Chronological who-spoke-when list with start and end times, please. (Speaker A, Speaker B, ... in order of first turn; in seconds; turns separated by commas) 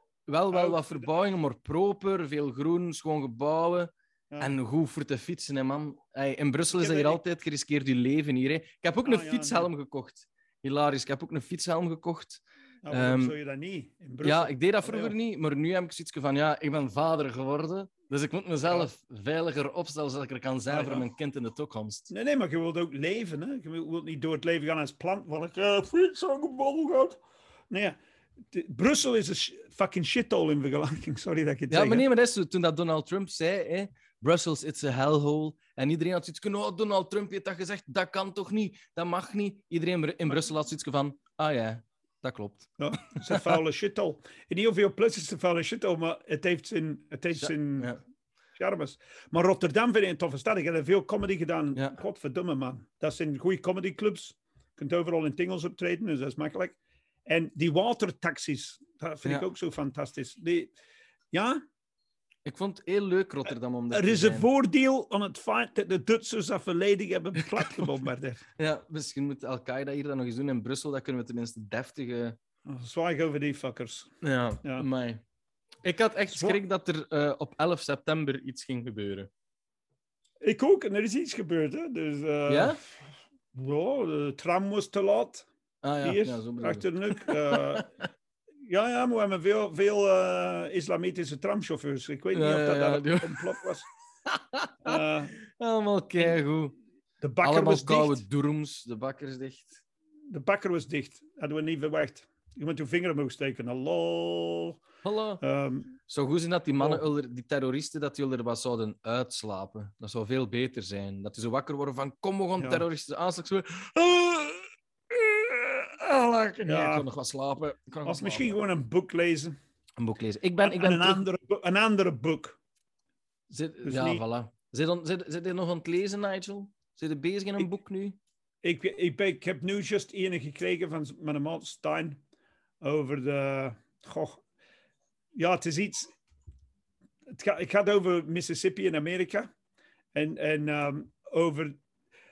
Speaker A: 0.3-13.3, Speaker B: 0.5-1.1, Speaker B: 6.8-7.2, Speaker B: 9.1-9.7, Speaker B: 12.8-15.2, Speaker A: 14.2-22.1, Speaker B: 20.7-21.1, Speaker B: 22.1-28.0, Speaker B: 28.5-32.0, Speaker A: 31.7-43.6, Speaker B: 42.8-47.9, Speaker A: 47.4-48.0, Speaker B: 48.6-60.7, Speaker B: 61.3-61.6, Speaker A: 62.5-64.5, Speaker B: 63.9-68.4, Speaker A: 67.4-67.8, Speaker A: 68.6-72.4, Speaker B: 72.7-74.1, Speaker A: 74.2-75.2, Speaker A: 75.8-79.3, Speaker B: 76.3-76.6, Speaker B: 80.4-83.0, Speaker A: 82.5-82.8, Speaker B: 83.5-85.5, Speaker A: 85.8-88.0, Speaker B: 86.0-87.9, Speaker B: 88.6-93.9, Speaker A: 92.3-93.6, Speaker A: 94.3-96.8, Speaker B: 94.8-95.3, Speaker B: 97.2-98.2, Speaker A: 97.4-99.8, Speaker B: 100.3-104.8, Speaker A: 105.0-105.4, Speaker B: 105.4-105.9, Speaker A: 106.1-118.5, Speaker B: 112.6-112.8, Speaker B: 116.6-117.1, Speaker B: 118.0-119.5, Speaker A: 120.0-121.2, Speaker B: 120.6-122.6, Speaker A: 123.5-128.2, Speaker B: 123.8-124.2, Speaker B: 128.6-132.2, Speaker B: 132.8-134.4, Speaker B: 135.3-136.1, Speaker B: 137.3-139.5, Speaker B: 140.2-141.8